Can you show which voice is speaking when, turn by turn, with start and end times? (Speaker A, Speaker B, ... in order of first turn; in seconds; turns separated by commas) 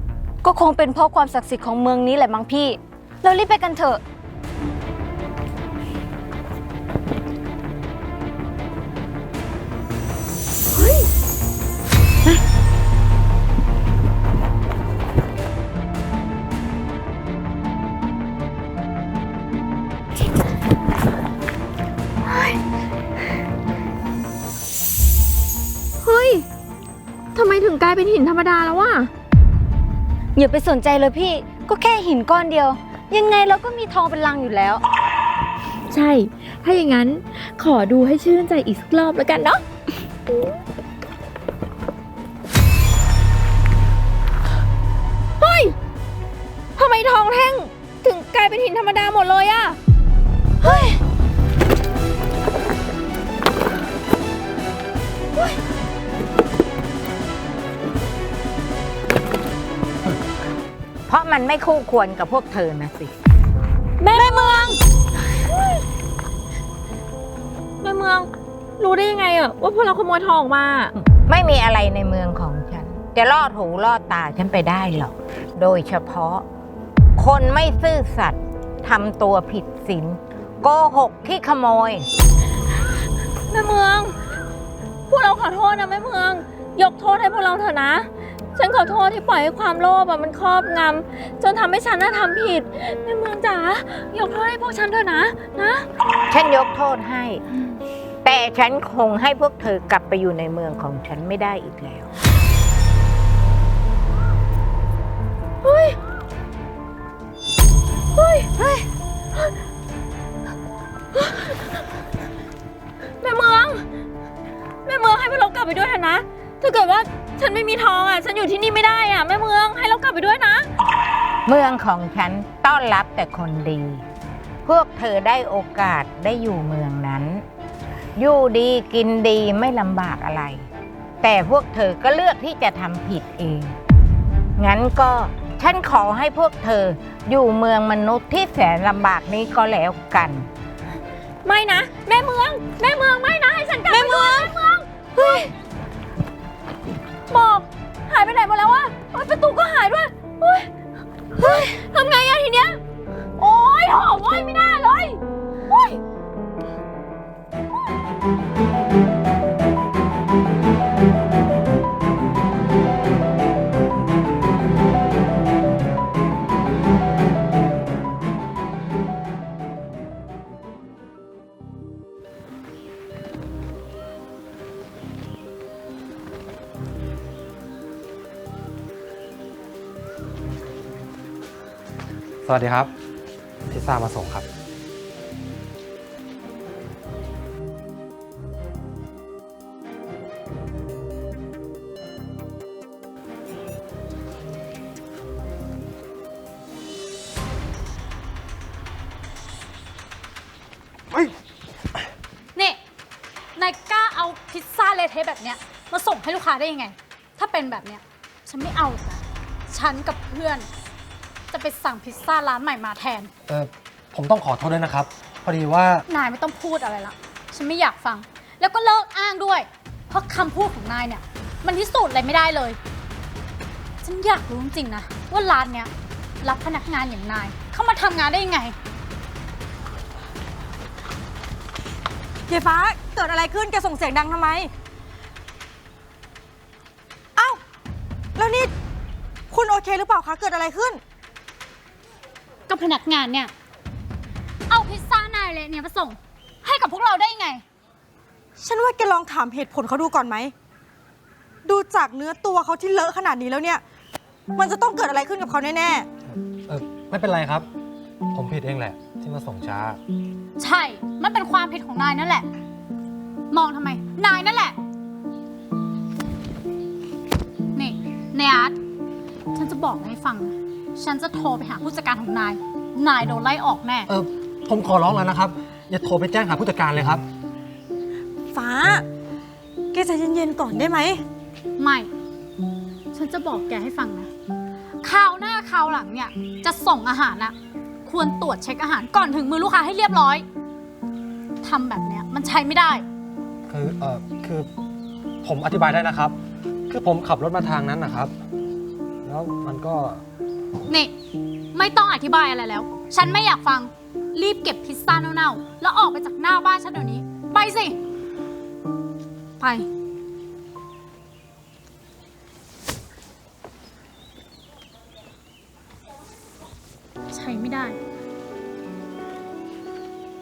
Speaker A: 0.4-4.0, Speaker B: 10.7-11.1, Speaker B: 26.0-26.4, Speaker B: 27.3-29.1, Speaker A: 30.4-34.8, Speaker B: 35.9-39.6, Speaker B: 45.4-45.8, Speaker B: 46.8-49.8, Speaker B: 50.6-51.0, Speaker C: 61.1-63.1, Speaker B: 64.0-64.8, Speaker A: 64.1-64.8, Speaker B: 65.5-65.8, Speaker B: 67.8-70.9, Speaker C: 71.2-76.4, Speaker C: 77.2-82.1, Speaker B: 83.5-84.2, Speaker B: 85.1-95.8, Speaker C: 96.3-97.4, Speaker C: 98.2-102.1, Speaker B: 105.6-106.0, Speaker B: 108.1-108.8, Speaker B: 111.2-111.6, Speaker B: 113.2-113.8, Speaker B: 114.8-120.7, Speaker C: 121.5-124.0, Speaker C: 124.6-127.4, Speaker C: 128.2-130.7, Speaker C: 131.2-133.7, Speaker C: 134.6-140.5, Speaker B: 141.4-145.5, Speaker A: 143.9-144.5, Speaker B: 147.3-150.7, Speaker B: 151.3-152.8, Speaker B: 153.4-156.0, Speaker D: 182.4-182.9, Speaker D: 183.7-184.4, Speaker E: 202.5-202.8, Speaker E: 203.6-210.7, Speaker E: 211.5-213.3, Speaker D: 213.5-216.0, Speaker E: 216.1-222.8, Speaker E: 224.0-228.8, Speaker F: 232.5-234.7, Speaker F: 237.4-237.6, Speaker F: 238.4-238.7, Speaker F: 239.5-241.0, Speaker E: 242.7-243.5, Speaker E: 244.7-247.6, Speaker F: 248.6-250.5, Speaker F: 251.6-253.8, Speaker F: 254.5-256.1, Speaker D: 256.3-257.7, Speaker D: 258.3-260.0, Speaker E: 260.6-262.5, Speaker E: 263.5-264.8, Speaker E: 267.7-268.8, Speaker E: 269.5-274.1, Speaker D: 274.1-277.2, Speaker F: 278.5-279.1, Speaker F: 279.9-281.2, Speaker E: 281.8-282.1, Speaker E: 283.1-284.3, Speaker E: 285.0-290.4, Speaker E: 291.6-293.0, Speaker D: 293.7-294.7, Speaker D: 295.4-296.4, Speaker D: 296.9-298.3, Speaker D: 299.2-300.2, Speaker E: 300.9-301.1, Speaker E: 301.7-308.0, Speaker E: 309.6-309.9, Speaker E: 317.3-318.0